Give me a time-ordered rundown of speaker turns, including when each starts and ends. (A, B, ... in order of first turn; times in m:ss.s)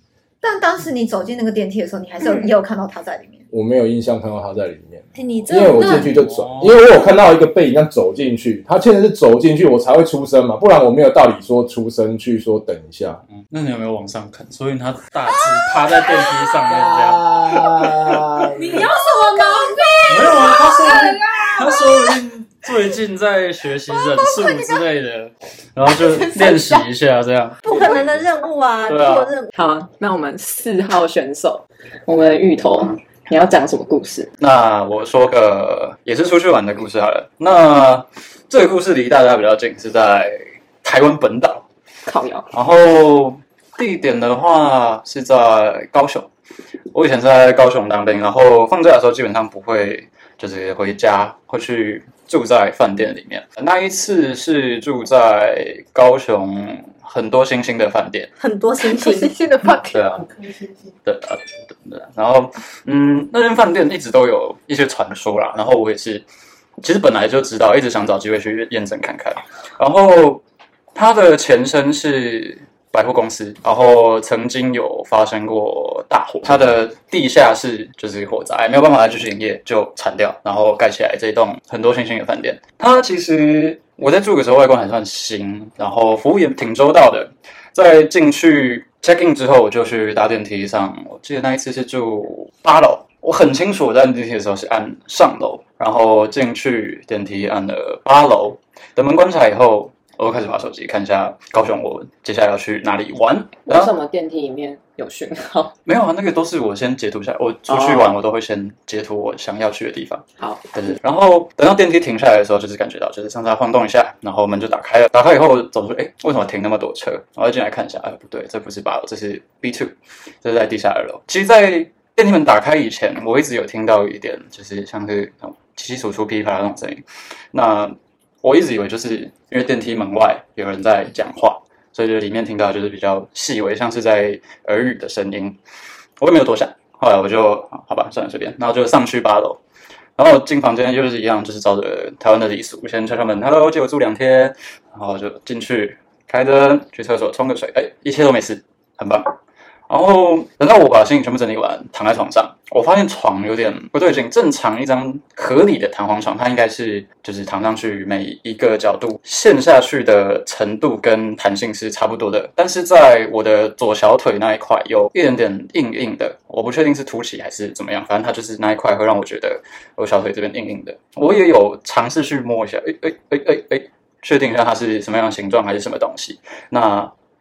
0:00.4-0:03.4 A
0:03.5-0:13.2 B
0:05.2-0:06.0 C
0:05.8-0:06.0 D
0:06.0-0:06.8 E
0:13.3-0:18.2 E
0:16.7-0:18.5 B
0:18.5-0:21.6 D
0:19.4-0:19.8 A
0:20.1-0:27.6 E
0:26.4-0:26.8 A
0:27.6-0:29.5 C
0:28.9-0:29.3 E
0:29.5-0:34.3 D
0:34.4-0:41.6 E
0:42.0-0:42.5 D
0:42.5-0:46.3 E
0:46.9-0:58.3 E
0:58.4-0:59.4 C
0:58.8-1:00.1 A
0:59.9-1:00.3 E
1:01.0-1:06.2 E
1:06.8-1:10.4 E
1:10.9-1:43.9 E
1:43.6-1:45.7 D
1:45.8-2:15.6 E
1:47.7-1:48.1 D
1:50.4-1:50.6 D
2:16.2-2:19.6 E
2:20.2-2:29.3 E
2:29.9-2:57.1 E